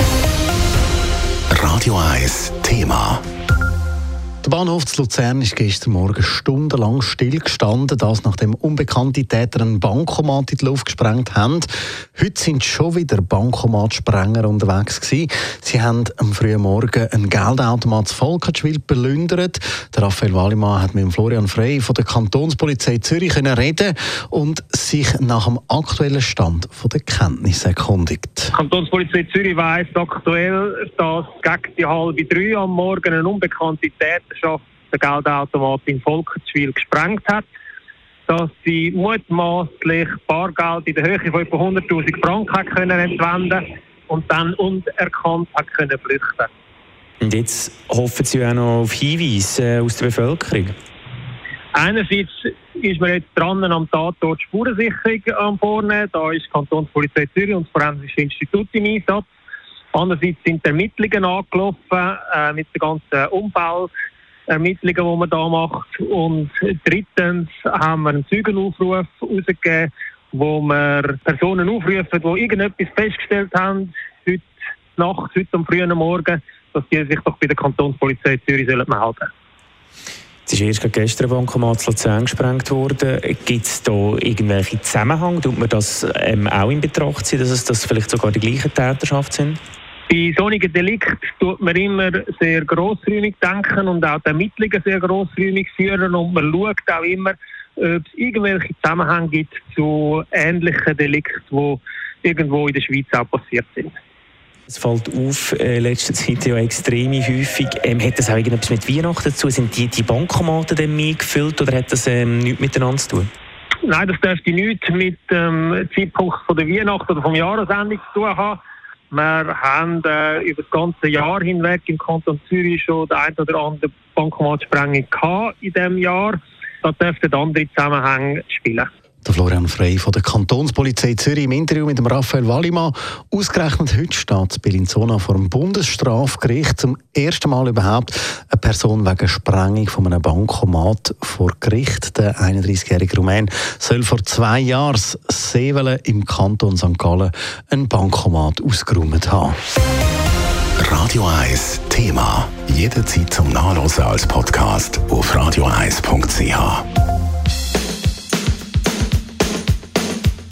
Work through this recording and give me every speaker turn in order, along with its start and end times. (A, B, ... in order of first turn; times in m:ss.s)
0:01.5-0:03.2 A
0:04.4-0:28.5 B
0:28.5-0:37.5 C
0:38.3-0:46.5 C
0:47.2-0:50.7 D
0:51.7-0:59.3 C
0:59.9-1:03.9 C
1:04.5-1:19.3 C
1:20.5-1:29.6 D
1:30.1-1:43.9 C
1:44.7-1:53.3 D
1:53.8-1:58.6 C
1:59.1-2:08.9 C
2:09.2-2:29.6 B
2:30.8-2:36.8 A